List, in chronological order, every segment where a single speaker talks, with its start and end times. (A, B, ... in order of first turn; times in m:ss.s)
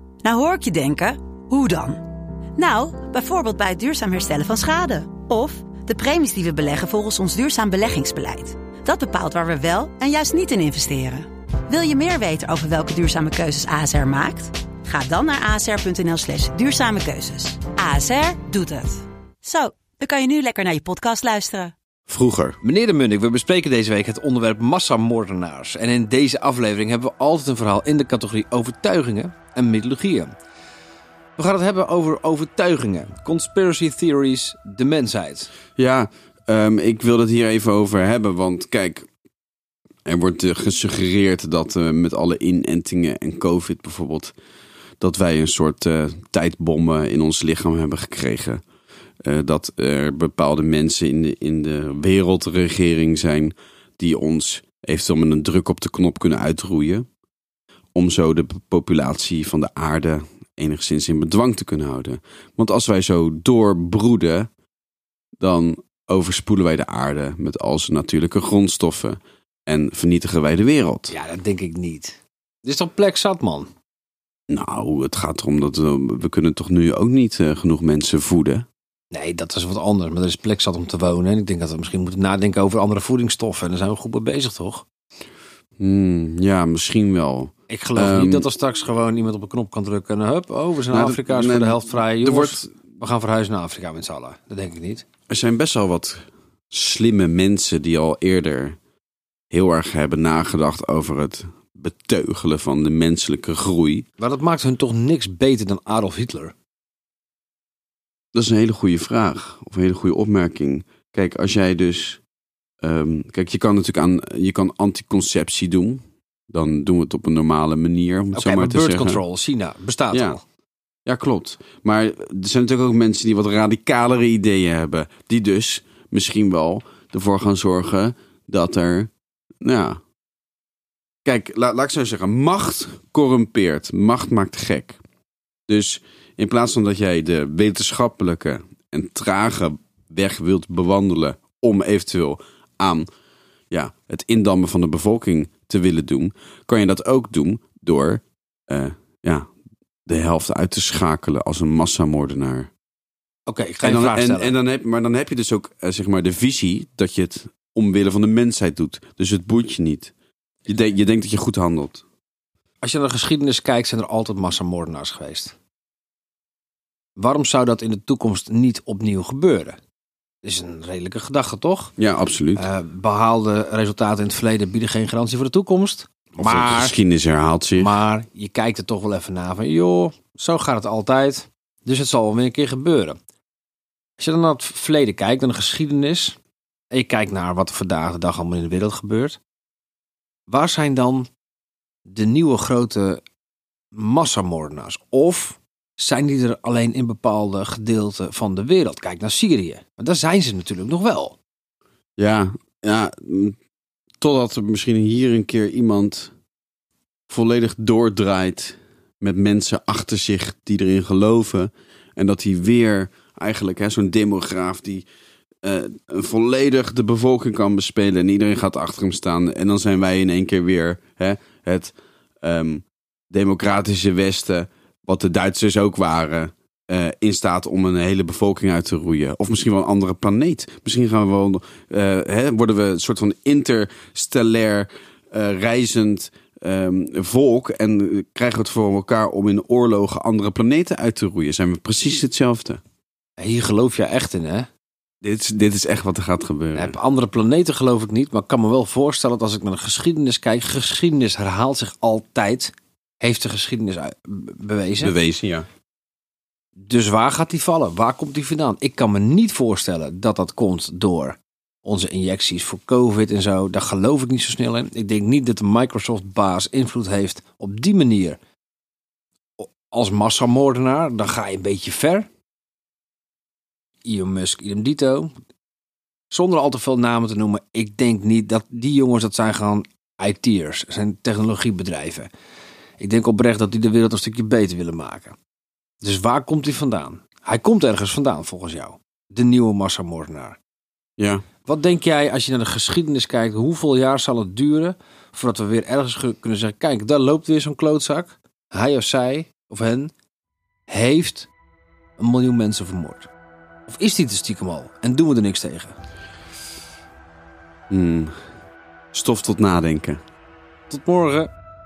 0:00.2-0:02.0 A
0:02.6-0:21.7 A
0:22.1-0:22.6 B
0:22.6-0:30.3 C
0:31.4-0:35.5 C
0:35.8-0:39.1 B
0:40.0-0:44.3 B
0:45.0-0:48.6 B
0:49.2-0:57.0 B
0:57.9-1:04.5 B
1:05.4-1:11.1 B
1:11.1-1:13.7 C
1:14.5-1:18.6 B
1:19.1-1:24.8 C
1:25.8-1:28.5 B
1:27.7-1:35.0 C
1:30.9-1:32.6 B
1:35.3-1:38.8 B
1:39.5-1:44.0 B
1:44.2-1:46.5 C
1:48.3-1:52.2 B
1:52.8-1:59.2 B
1:58.3-2:00.4 C
2:00.1-2:00.4 B
2:01.0-2:10.0 B
2:11.2-2:15.0 B
2:15.7-2:23.1 B
2:23.7-2:29.5 B
2:30.0-2:32.7 B
2:33.5-2:34.6 C
2:33.8-2:40.1 B
2:40.6-2:42.0 B
2:42.8-2:45.6 C
2:47.2-2:49.8 C
2:50.4-2:51.9 C
2:52.0-2:52.7 B
2:52.6-2:57.0 C
2:56.4-2:57.9 B
2:57.8-3:03.2 C
3:04.2-3:06.4 C
3:06.9-3:09.4 C
3:10.5-3:11.3 C
3:12.0-3:13.2 C
3:13.9-3:21.4 C
3:22.2-3:23.6 B
3:24.2-3:26.3 B
3:27.3-3:35.0 B
3:35.6-4:02.8 B
4:03.4-4:04.7 C
4:05.2-4:07.0 B
4:06.7-4:15.1 C
4:15.0-4:15.7 B
4:16.8-4:28.4 C
4:29.6-4:32.3 C
4:34.0-4:35.3 C
4:36.3-4:42.3 C
4:43.0-4:45.4 C
4:46.0-4:50.6 C
4:51.2-4:51.4 B
4:51.6-5:00.1 C
5:00.9-5:01.5 C
5:02.2-5:03.3 C
5:03.9-5:06.0 C
5:07.9-5:08.4 B
5:09.1-5:10.2 B
5:10.9-5:11.5 C